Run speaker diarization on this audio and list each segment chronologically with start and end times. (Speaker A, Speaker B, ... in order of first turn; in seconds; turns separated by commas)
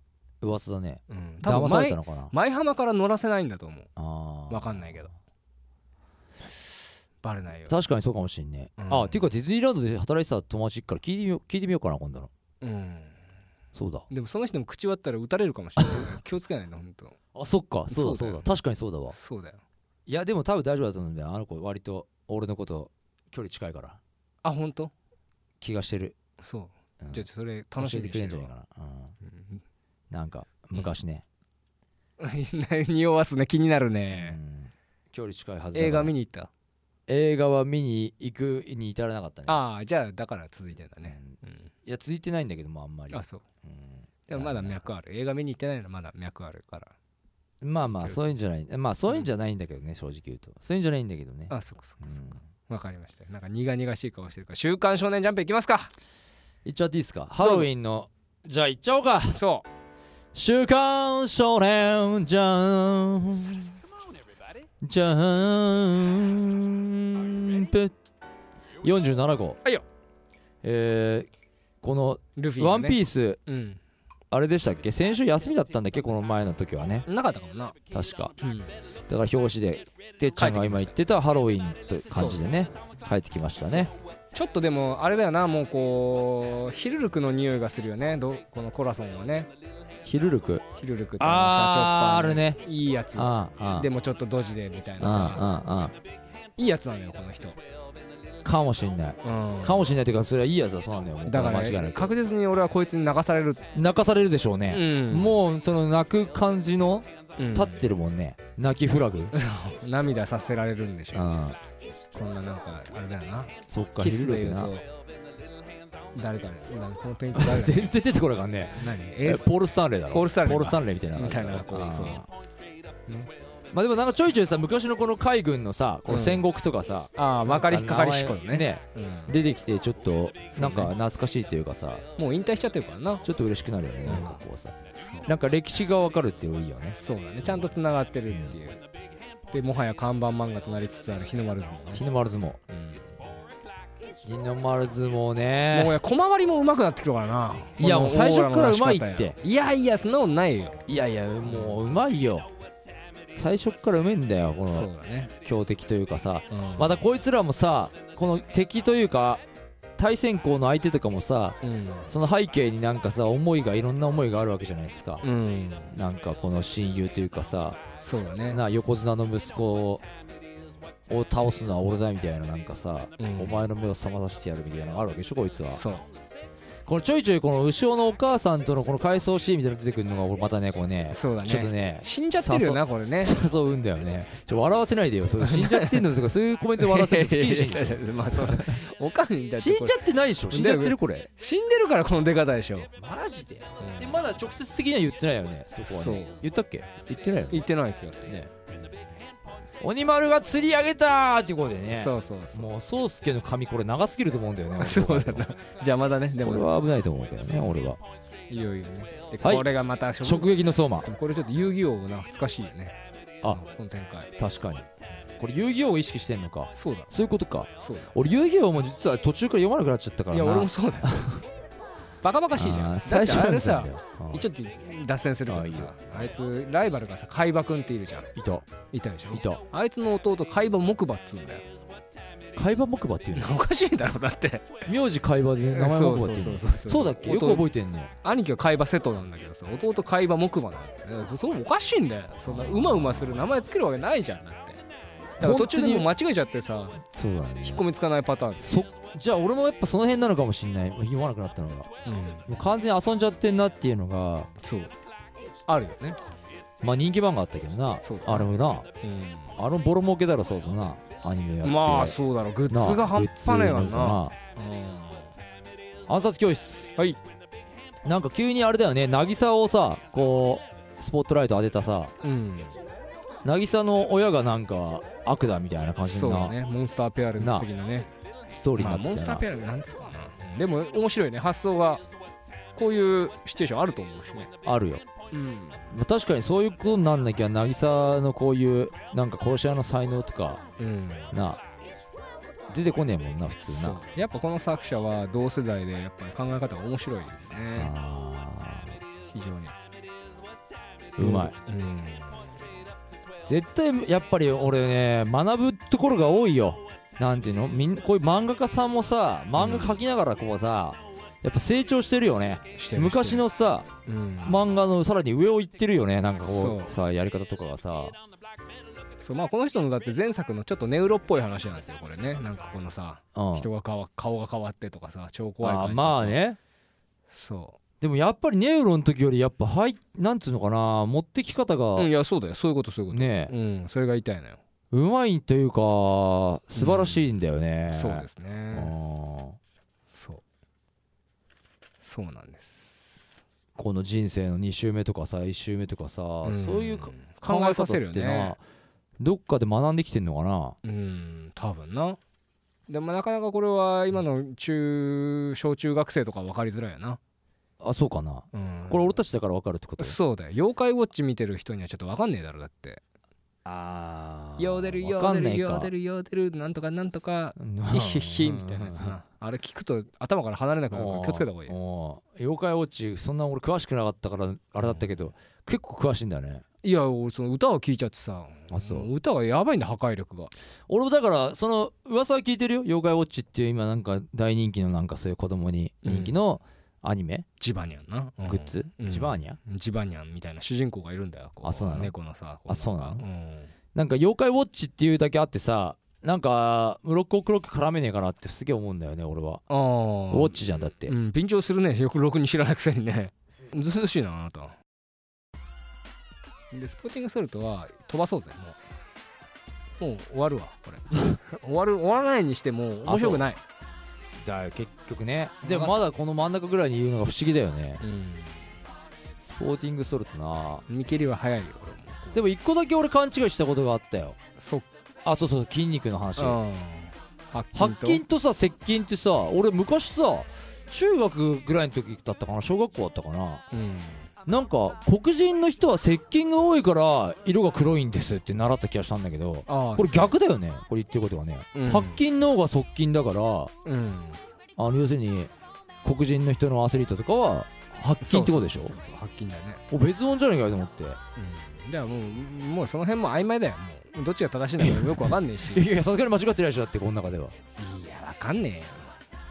Speaker A: 0.4-2.3, Speaker B: 1.1-3.9, Speaker A: 4.0-5.0, Speaker B: 4.5-5.1, Speaker B: 7.2-7.8, Speaker A: 7.7-12.3, Speaker B: 8.8-9.2, Speaker B: 12.6-13.2, Speaker A: 13.7-14.1, Speaker B: 14.1-17.2, Speaker A: 17.3-19.1, Speaker B: 17.9-18.5, Speaker B: 19.1-19.6, Speaker A: 20.1-24.0, Speaker B: 24.4-24.9, Speaker A: 25.6-26.1, Speaker B: 26.4-28.5, Speaker A: 27.8-29.1, Speaker B: 29.2-29.6, Speaker A: 30.1-31.2, Speaker B: 32.2-34.4, Speaker A: 34.1-36.1, Speaker B: 35.7-36.5, Speaker A: 37.1-39.6, Speaker B: 39.5-41.7, Speaker A: 41.0-41.3, Speaker A: 41.8-44.8, Speaker B: 43.1-43.4, Speaker B: 44.3-46.9, Speaker A: 47.6-52.4, Speaker B: 51.5-55.9, Speaker A: 56.6-59.4, Speaker B: 57.4-57.7, Speaker B: 59.3-59.6, Speaker A: 60.3-63.7, Speaker A: 64.8-67.9, Speaker A: 68.8-69.6, Speaker A: 70.6-71.3, Speaker A: 71.8-73.4, Speaker B: 72.3-73.8, Speaker A: 74.3-77.0, Speaker B: 77.0-77.7, Speaker A: 77.9-78.3, Speaker B: 78.4-78.7, Speaker A: 79.1-83.9, Speaker B: 80.4-80.9, Speaker B: 82.1-82.5, Speaker B: 84.3-89.5, Speaker A: 90.0-90.7, Speaker B: 90.8-95.5, Speaker A: 91.2-92.6, Speaker A: 93.1-93.9, Speaker A: 95.0-95.9, Speaker B: 96.6-97.6, Speaker A: 98.4-102.1, Speaker B: 99.2-99.9, Speaker B: 101.2-103.7, Speaker A: 103.7-109.3, Speaker B: 104.7-105.4, Speaker B: 107.4-107.8, Speaker B: 109.3-111.3, Speaker A: 111.1-111.6, Speaker B: 112.1-114.8, Speaker A: 113.7-114.7, Speaker B: 116.1-118.0, Speaker A: 117.3-122.3, Speaker B: 118.8-119.5, Speaker B: 120.1-122.3, Speaker A: 123.7-132.0, Speaker B: 126.1-126.5, Speaker B: 127.1-129.3, Speaker B: 130.5-130.9, Speaker B: 132.2-133.2, Speaker A: 133.2-137.7, Speaker B: 134.0-134.4, Speaker B: 135.0-135.3, Speaker B: 136.9-138.8, Speaker B: 139.5-142.0, Speaker A: 141.9-142.6, Speaker B: 142.7-143.3, Speaker A: 144.2-146.0, Speaker B: 145.7-150.8, Speaker A: 147.8-149.3, Speaker A: 150.9-152.5, Speaker B: 151.4-151.9, Speaker A: 153.3-154.9, Speaker B: 154.7-155.3, Speaker A: 155.4-159.4, Speaker B: 156.5-157.0, Speaker A: 160.0-165.2, Speaker B: 161.6-162.1, Speaker B: 165.2-166.0, Speaker A: 165.9-167.8, Speaker B: 168.0-168.6, Speaker A: 168.5-170.0, Speaker A: 171.1-175.8, Speaker B: 173.2-173.6, Speaker B: 175.7-176.1, Speaker A: 176.8-188.8, Speaker B: 181.1-183.4, Speaker B: 185.4-186.1, Speaker B: 186.8-192.9, Speaker A: 189.5-191.3, Speaker A: 192.9-197.7, Speaker B: 193.8-194.2, Speaker B: 195.8-196.4, Speaker B: 197.5-198.4, Speaker A: 198.3-198.5, Speaker A: 199.8-205.5, Speaker B: 201.9-202.7, Speaker B: 204.8-206.7, Speaker A: 206.4-208.0, Speaker B: 208.5-214.3, Speaker A: 209.4-209.7, Speaker A: 210.2-211.1, Speaker A: 214.4-214.9, Speaker A: 215.4-221.4, Speaker B: 216.7-217.1, Speaker B: 217.8-218.1, Speaker B: 220.3-221.4, Speaker B: 222.2-228.3, Speaker A: 222.5-224.4, Speaker A: 225.5-226.1, Speaker A: 228.3-228.7, Speaker B: 228.9-231.6, Speaker A: 229.3-229.6, Speaker A: 232.6-233.6, Speaker B: 233.3-234.8, Speaker A: 234.8-238.1, Speaker B: 235.7-237.7, Speaker B: 238.2-244.8, Speaker A: 242.5-243.5, Speaker A: 245.4-246.1, Speaker B: 245.4-247.0, Speaker A: 247.0-247.9, Speaker B: 247.6-248.7, Speaker A: 248.6-251.9, Speaker B: 252.0-252.5, Speaker A: 252.5-254.5, Speaker B: 254.6-254.9, Speaker B: 255.7-256.2, Speaker A: 256.8-258.9, Speaker B: 258.0-259.6, Speaker A: 259.6-262.2, Speaker B: 261.6-265.3, Speaker A: 262.7-264.3, Speaker A: 266.1-266.9, Speaker A: 268.0-272.1, Speaker B: 272.2-272.8, Speaker A: 273.4-276.6, Speaker B: 276.0-278.1, Speaker A: 277.4-277.7, Speaker A: 278.5-279.4, Speaker B: 278.8-282.0, Speaker B: 282.8-284.5, Speaker A: 284.6-285.0, Speaker B: 285.3-285.9, Speaker A: 285.9-290.6, Speaker B: 290.8-291.3, Speaker A: 291.3-291.6, Speaker A: 292.7-294.0, Speaker B: 293.7-297.9, Speaker A: 297.7-298.9, Speaker B: 299.3-299.8, Speaker A: 301.2-301.6, Speaker B: 301.2-302.6, Speaker A: 303.4-313.9, Speaker B: 309.6-310.0, Speaker B: 312.7-313.4, Speaker B: 314.0-314.7, Speaker A: 314.4-318.1, Speaker B: 316.4-316.9, Speaker B: 319.2-326.4, Speaker A: 323.3-323.7, Speaker A: 325.6-326.6, Speaker B: 327.3-327.8, Speaker A: 328.0-332.1, Speaker B: 332.0-334.6, Speaker A: 333.1-333.5, Speaker A: 334.9-339.6, Speaker B: 336.7-337.3, Speaker B: 337.9-338.9, Speaker B: 340.1-340.4, Speaker B: 342.0-343.1, Speaker A: 343.8-348.6, Speaker B: 346.4-348.6, Speaker A: 349.2-350.8, Speaker B: 350.8-352.2, Speaker B: 352.9-357.2, Speaker A: 357.8-360.1, Speaker B: 358.5-359.2, Speaker B: 360.0-363.0, Speaker A: 363.6-365.9, Speaker B: 364.6-371.8, Speaker A: 367.6-369.2, Speaker A: 370.9-376.6, Speaker B: 376.8-380.5, Speaker A: 378.7-379.1, Speaker A: 380.9-387.4, Speaker B: 386.0-386.4, Speaker B: 387.6-393.7, Speaker A: 388.4-389.6, Speaker A: 391.6-392.1, Speaker A: 392.7-393.2, Speaker A: 393.9-399.6, Speaker B: 399.7-404.8, Speaker A: 400.3-401.1, Speaker B: 406.7-408.8, Speaker B: 410.0-413.6, Speaker A: 413.0-413.4, Speaker A: 414.4-418.0, Speaker B: 415.6-416.0, Speaker B: 418.0-418.7, Speaker A: 419.4-420.8, Speaker B: 420.9-422.4, Speaker A: 422.3-424.4, Speaker B: 424.6-424.9, Speaker A: 425.2-426.6, Speaker B: 426.4-428.2, Speaker A: 427.7-433.6, Speaker B: 433.7-434.3, Speaker A: 434.4-443.7, Speaker B: 439.7-440.3, Speaker B: 441.7-442.2, Speaker B: 443.8-444.4, Speaker A: 444.8-445.5, Speaker A: 446.0-448.9, Speaker B: 448.2-449.8, Speaker A: 449.9-451.2, Speaker B: 451.4-455.8, Speaker A: 454.8-457.5, Speaker B: 457.8-459.1